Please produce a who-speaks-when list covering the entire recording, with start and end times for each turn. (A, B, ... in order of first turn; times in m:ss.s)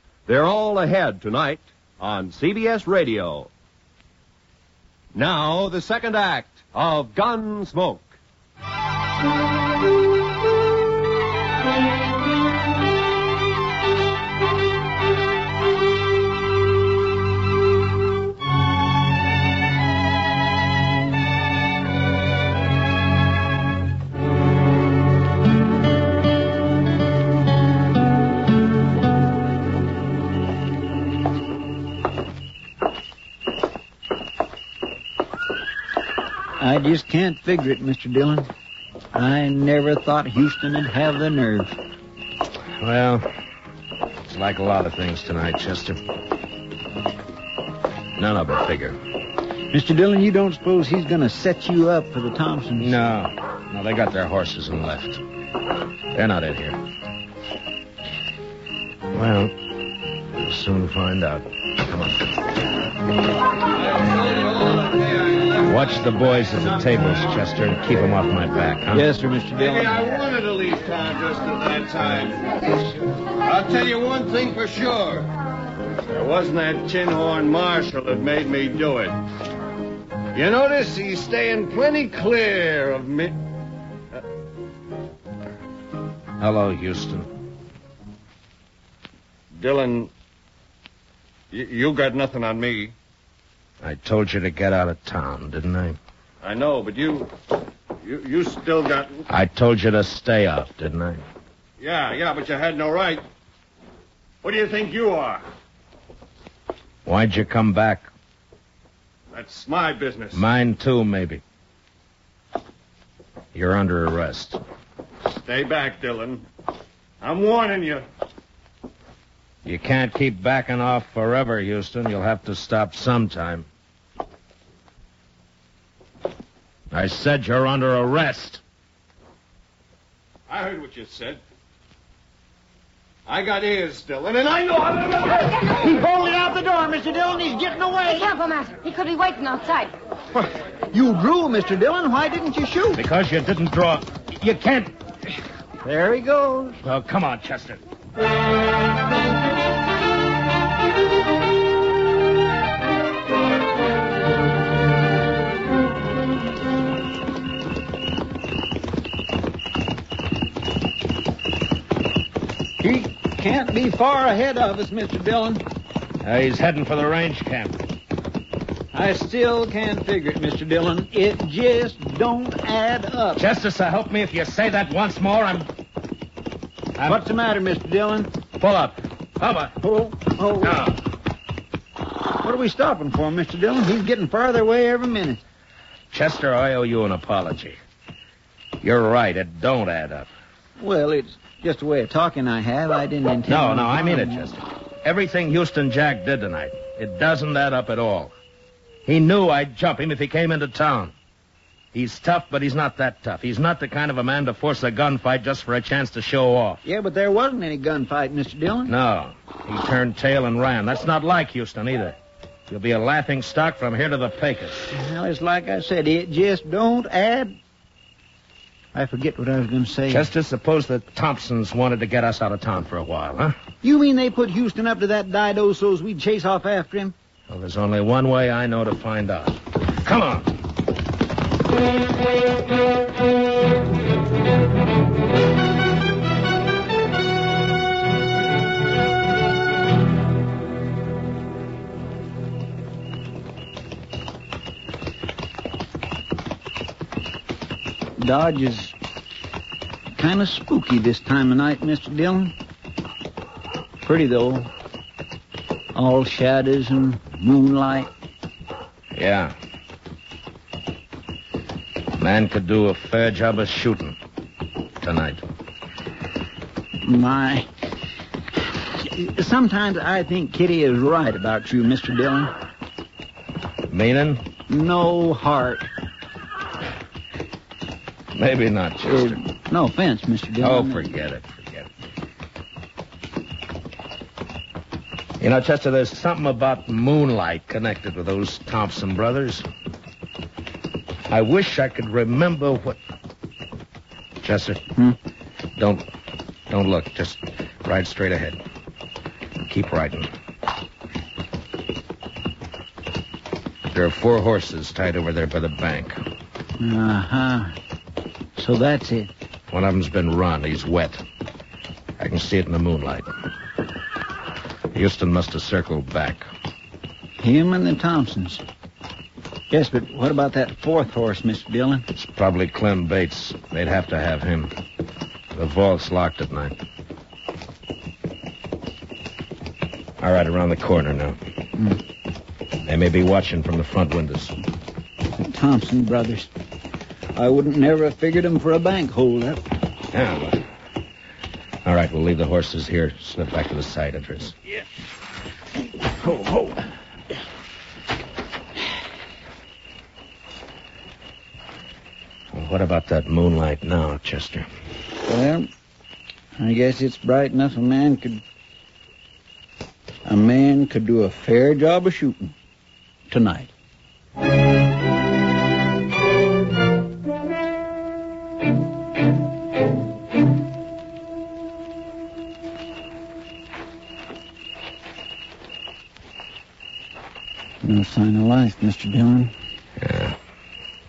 0:00.3-0:03.5 A
0:05.1-0:08.1 A
0:36.6-0:38.5 B
0:39.1-0:41.7 B
0:42.8-0:43.2 C
0:44.2-0:46.0 C
0:48.2-0:49.0 C
0:49.7-0:52.9 B
0:52.8-0:55.2 C
0:56.1-0:56.8 C
0:59.1-0:59.5 C
1:00.3-1:02.2 C
1:03.7-1:07.4 D
1:05.6-1:09.1 C
1:08.9-1:10.0 B
1:09.5-1:12.5 D
1:13.4-1:15.3 D
1:16.1-1:19.2 D
1:20.3-1:23.4 D
1:26.4-1:27.3 C
1:29.6-1:30.1 D
1:31.5-1:32.9 D
1:33.8-1:36.0 C
1:36.4-1:37.3 D
1:38.0-1:39.2 D
1:39.3-1:41.2 C
1:41.8-1:43.2 D
1:44.4-1:45.4 D
1:47.0-1:48.1 C
1:49.3-1:50.4 D
1:50.3-1:51.4 C
1:53.5-1:54.6 C
1:55.2-1:56.4 D
1:57.2-1:58.0 D
1:59.6-2:03.7 C
2:06.9-2:08.6 C
2:10.5-2:11.4 D
2:13.2-2:15.5 D
2:15.6-2:18.3 B
2:18.0-2:19.9 E
2:20.3-2:23.0 B
2:22.9-2:24.9 C
2:25.8-2:26.8 B
2:26.8-2:27.8 C
2:42.8-2:45.6 B
2:46.2-2:47.8 C
2:48.9-2:53.4 B
2:53.4-2:55.7 C
2:57.0-2:57.2 C
2:57.0-2:58.3 B
2:58.6-2:59.8 C
2:59.8-3:00.8 B
3:00.6-3:01.0 C
3:02.4-3:05.4 B
3:06.1-3:07.8 C
3:08.8-3:10.3 C
3:10.8-3:14.5 B
3:13.5-3:18.3 C
3:19.0-3:21.1 C
3:21.9-3:26.8 C
3:26.8-3:28.9 B
3:28.9-3:32.2 C
3:32.7-3:34.8 C
3:34.9-3:37.6 B
3:38.9-3:40.3 B
3:40.1-3:43.6 C
3:43.8-3:47.1 B
3:47.5-3:50.6 C
4:08.2-4:09.0 B
4:10.2-4:12.5 B
4:14.0-4:14.7 B
4:15.9-4:18.1 B
4:19.1-4:19.5 C
4:22.2-4:24.2 C
4:25.0-4:25.4 C
4:27.0-4:27.7 B
4:28.9-4:32.5 B
4:33.9-4:34.4 C
4:34.7-4:35.9 B
4:38.3-4:39.4 C
4:39.0-4:41.1 B
4:40.6-4:41.9 C
4:45.4-4:49.7 C
4:51.3-4:53.0 C
4:54.4-4:54.8 C
4:55.8-4:56.1 C
4:56.7-4:58.6 C
4:59.6-5:00.3 C
5:03.9-5:06.2 C
5:06.8-5:07.8 B
5:08.6-5:09.3 B
5:09.7-5:11.2 C
5:12.2-5:13.3 C
5:14.9-5:16.5 C
5:17.4-5:18.6 B
5:19.7-5:22.1 B
5:22.1-5:24.7 C
5:25.5-5:26.8 C
5:30.2-5:31.4 C
5:32.8-5:34.6 C
5:35.4-5:36.5 B
5:37.3-5:39.6 B
5:40.1-5:40.6 C
5:41.8-5:44.6 C
5:52.5-5:54.7 C
5:55.2-5:55.7 B
5:56.6-5:58.4 B
6:00.2-6:02.5 B
6:03.3-6:03.7 B
6:17.8-6:19.5 B
6:20.0-6:20.4 C